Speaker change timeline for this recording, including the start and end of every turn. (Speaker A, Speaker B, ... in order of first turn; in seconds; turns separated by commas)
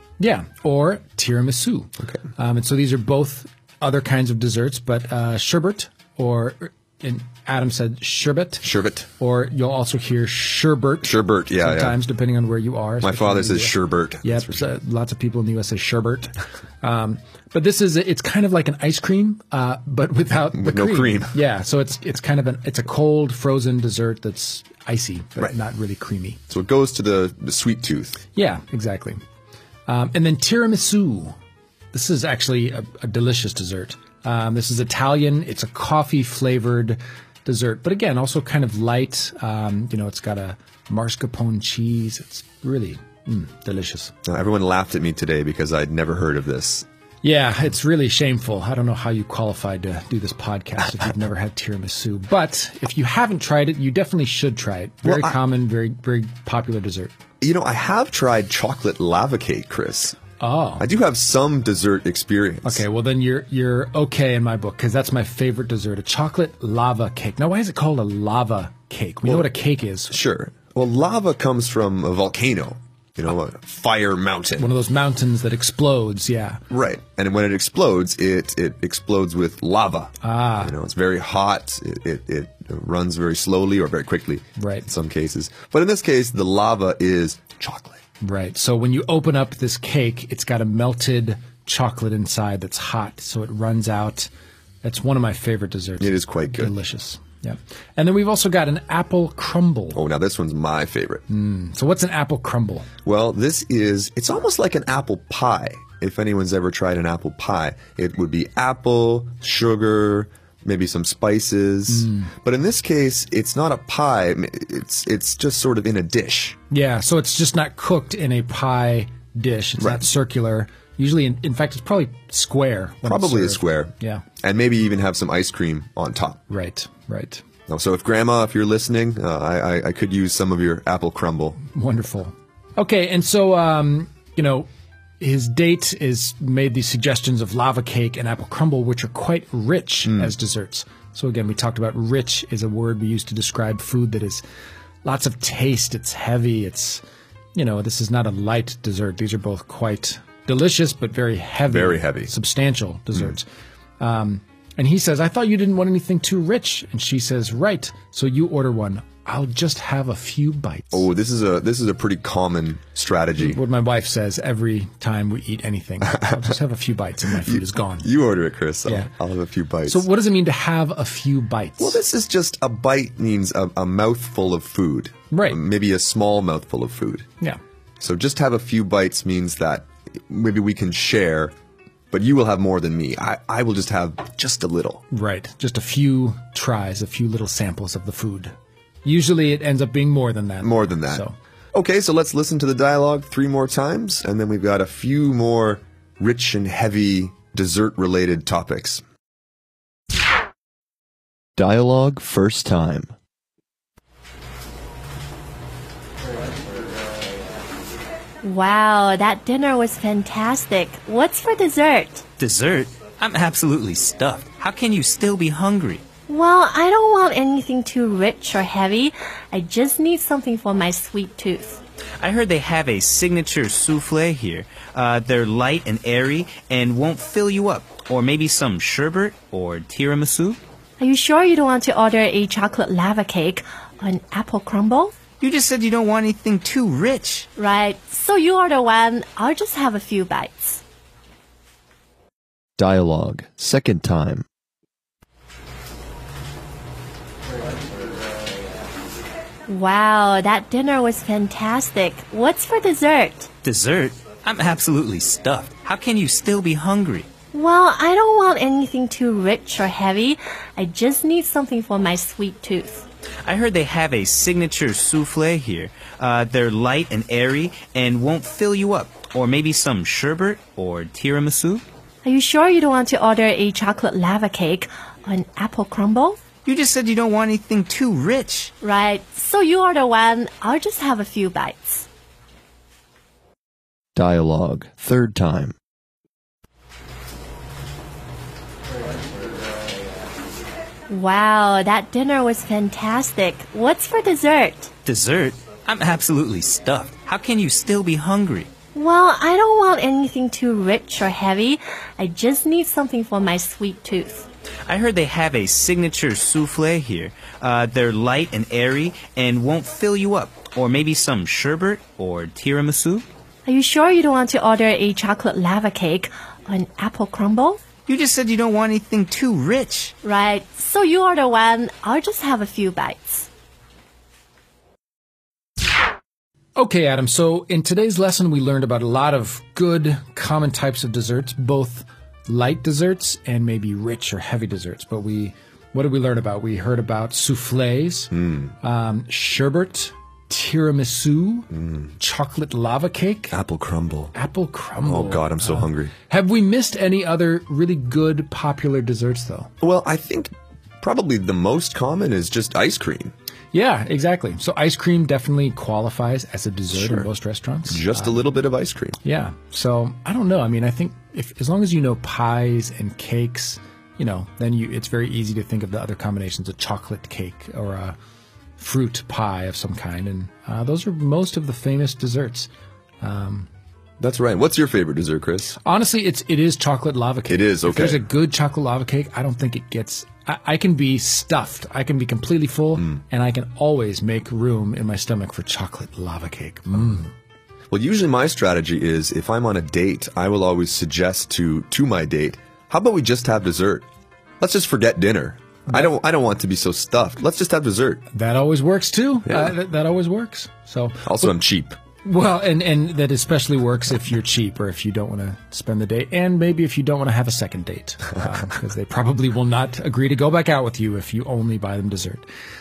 Speaker A: 0.2-26.4, Speaker B: 8.6-9.1, Speaker B: 11.0-12.0, Speaker B: 13.0-14.7, Speaker B: 20.5-21.3, Speaker B: 26.5-28.2, Speaker A: 28.3-29.2, Speaker A: 29.9-31.3, Speaker A: 31.9-44.1, Speaker B: 44.2-46.9, Speaker A: 47.2-57.1, Speaker B: 55.0-55.4, Speaker B: 57.4-60.2, Speaker A: 60.4-60.9, Speaker B: 60.8-62.8, Speaker A: 62.6-70.2, Speaker B: 69.2-69.5, Speaker B: 70.1-74.7, Speaker A: 74.6-76.6, Speaker B: 76.7-88.0, Speaker A: 80.2-80.7, Speaker A: 84.5-84.9, Speaker A: 88.2-94.3, Speaker A: 94.8-100.0, Speaker B: 96.0-96.7, Speaker B: 99.9-101.2, Speaker A: 101.3-102.9, Speaker B: 103.0-116.6, Speaker A: 111.9-112.3, Speaker A: 116.7-124.2, Speaker B: 119.8-120.0, Speaker B: 123.0-126.4, Speaker A: 126.5-127.4, Speaker B: 127.7-131.6, Speaker A: 131.7-134.7, Speaker A: 135.2-144.4, Speaker A: 145.0-147.0, Speaker A: 147.5-153.4, Speaker B: 151.7-152.3, Speaker A: 154.0-161.1, Speaker B: 160.9-163.6, Speaker A: 163.4-168.1, Speaker B: 166.1-166.3, Speaker B: 167.4-170.1, Speaker A: 168.8-169.1, Speaker A: 169.9-172.0, Speaker B: 171.8-177.2, Speaker A: 175.3-175.6, Speaker B: 178.0-181.5, Speaker B: 182.1-185.0, Speaker A: 185.1-191.3, Speaker B: 190.6-199.0, Speaker C: 201.6-203.1, Speaker D: 208.4-212.2, Speaker E: 212.4-216.0, Speaker D: 216.3-221.8, Speaker E: 222.2-230.6, Speaker D: 231.0-235.2, Speaker E: 235.4-237.5, Speaker D: 237.6-240.8, Speaker C: 242.8-244.4, Speaker D: 249.7-253.5, Speaker E: 253.6-257.3, Speaker D: 257.5-263.0, Speaker E: 263.4-271.8, Speaker D: 272.2-276.4, Speaker E: 276.6-278.7, Speaker D: 278.8-282.1, Speaker C: 284.1-285.8, Speaker D: 291.1-294.9, Speaker E: 295.0-298.7, Speaker D: 298.9-304.5, Speaker E: 304.9-313.2, Speaker D: 313.6-317.9, Speaker E: 318.1-320.1, Speaker D: 320.2-323.5, Speaker A: 326.8-343.6, Speaker B: 338.3-338.7, Speaker B: 343.5-344.3, Speaker A: 344.3-349.7, Speaker B: 345.1-346.1, Speaker B: 349.8-353.3, Speaker A: 353.7-358.4, Speaker B: 356.9-357.3, Speaker B: 357.9-359.2, Speaker A: 359.2-368.1, Speaker A: 368.8-372.7, Speaker A: 373.2-373.7, Speaker B: 374.2-375.8, Speaker A: 375.7-387.3, Speaker B: 377.5-378.2, Speaker B: 387.9-394.1, Speaker B: 394.6-398.2, Speaker A: 398.3-401.6, Speaker B: 399.5-399.7, Speaker B: 401.2-401.9, Speaker A: 402.2-412.4